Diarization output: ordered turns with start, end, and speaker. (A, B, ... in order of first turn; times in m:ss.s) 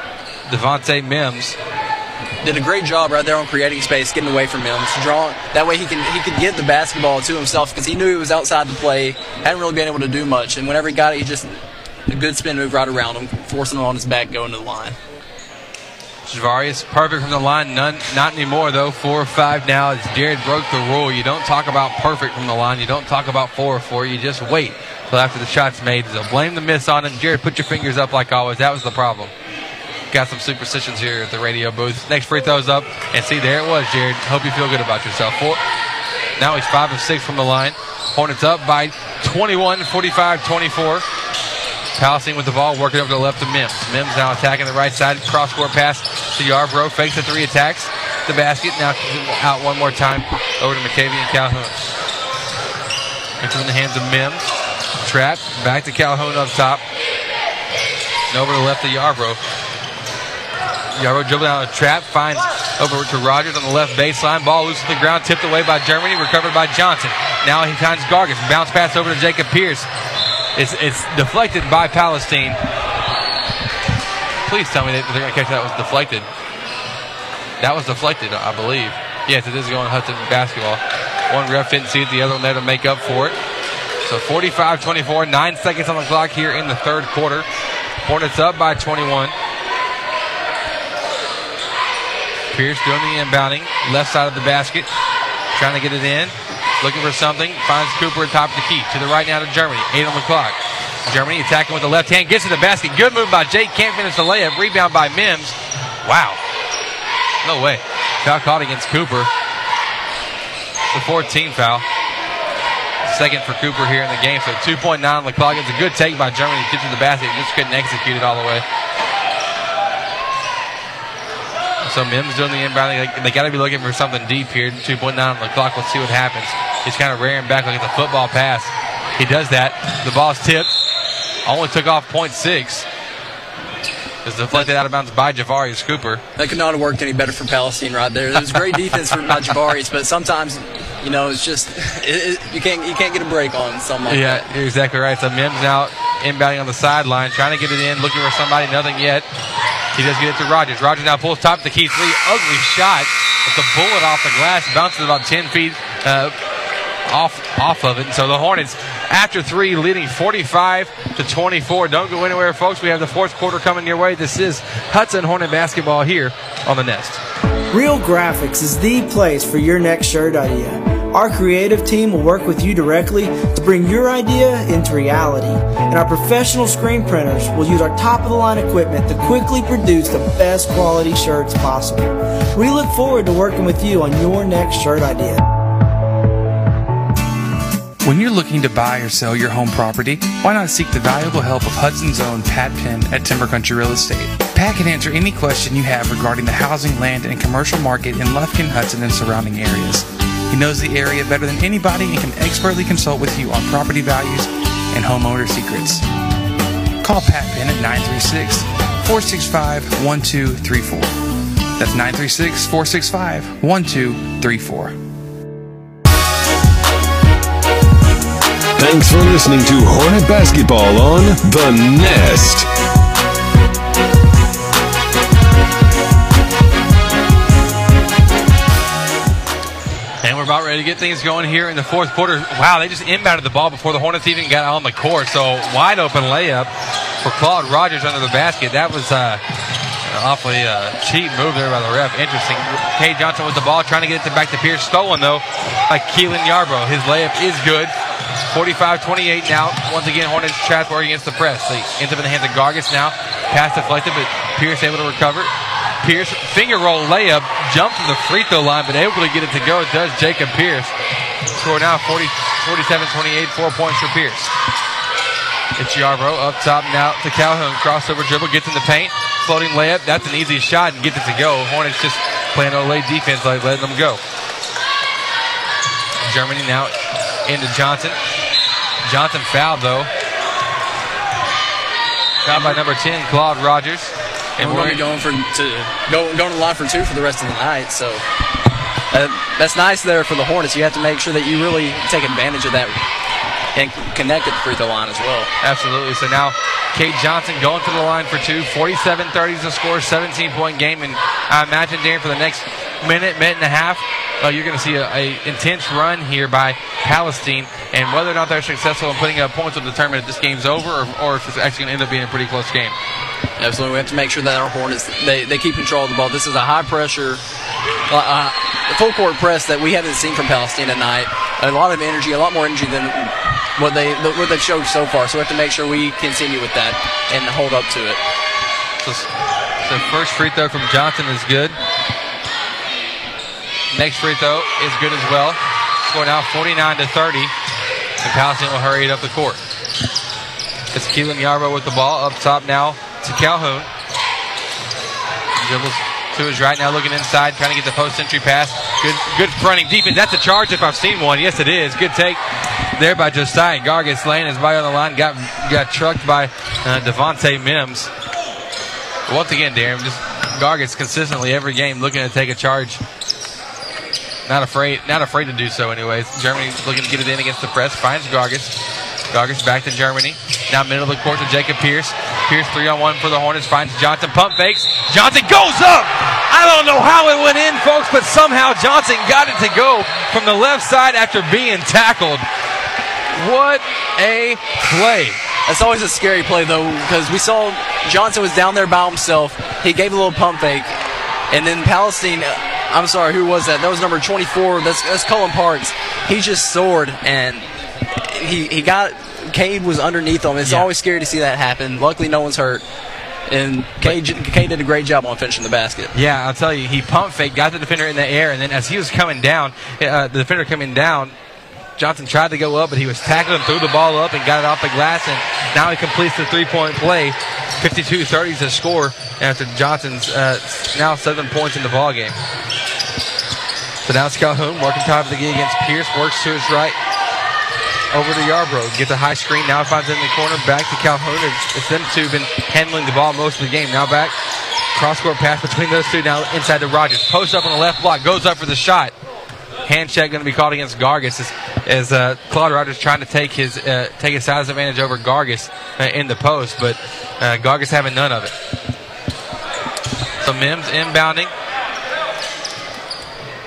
0:00.5-0:01.6 A
0:02.4-0:11.5 B
0:12.1-0:15.0 B
0:16.3-0:29.3 A
0:30.1-0:35.6 A
0:36.4-0:41.0 A
0:42.0-0:51.8 A
0:53.4-0:56.8 A
0:58.3-0:59.4 A
1:01.0-1:09.9 A
1:10.6-1:12.6 A
1:14.4-1:16.3 A
1:17.6-1:23.4 A
1:24.0-1:27.4 A
1:28.0-1:29.3 A
1:32.5-1:34.9 A
1:35.5-1:46.4 A
1:47.4-1:49.3 A
1:50.9-1:51.8 A
1:53.0-1:58.6 A
2:01.8-2:10.7 A
2:11.4-2:12.8 A
2:14.2-2:16.2 A
2:16.4-2:24.4 B
2:24.1-2:29.2 A
2:29.9-2:36.3 A
2:37.1-2:47.2 A
2:47.7-3:05.4 C
3:08.0-3:26.0 D
3:27.0-3:31.1 D
3:31.8-3:34.9 D
3:38.8-3:42.6 E
3:50.2-3:56.7 A
3:57.2-3:59.4 A
4:00.0-4:07.9 A
4:08.5-4:15.5 A
4:16.0-4:20.9 A
4:21.5-4:24.5 A
4:25.8-4:34.2 A
4:36.2-4:36.9 A
4:37.4-4:38.2 A
4:39.0-4:40.1 A
4:42.4-4:45.0 A
4:44.6-4:48.2 B
4:49.1-4:53.0 B
4:53.8-4:55.5 B
4:55.6-5:13.0 A
5:13.6-5:17.4 B
5:18.1-5:28.2 B
5:29.0-5:29.3 A
5:29.8-5:31.8 A
5:33.9-5:37.5 A
5:38.2-5:39.6 A
5:40.9-5:43.9 A
5:45.6-5:52.4 A
5:53.0-5:58.1 A
5:59.3-6:03.0 A
6:04.4-6:08.7 A
6:09.3-6:22.4 A
6:23.3-6:25.4 A
6:25.6-6:31.0 B
6:31.5-6:42.8 B
6:40.6-6:40.9 A
6:43.5-6:46.1 B
6:46.1-6:51.3 A
6:52.0-7:02.4 A
7:04.0-7:07.0 A
7:08.1-7:14.3 A
7:14.9-7:19.1 A
7:19.9-7:28.5 A
7:30.4-7:31.5 A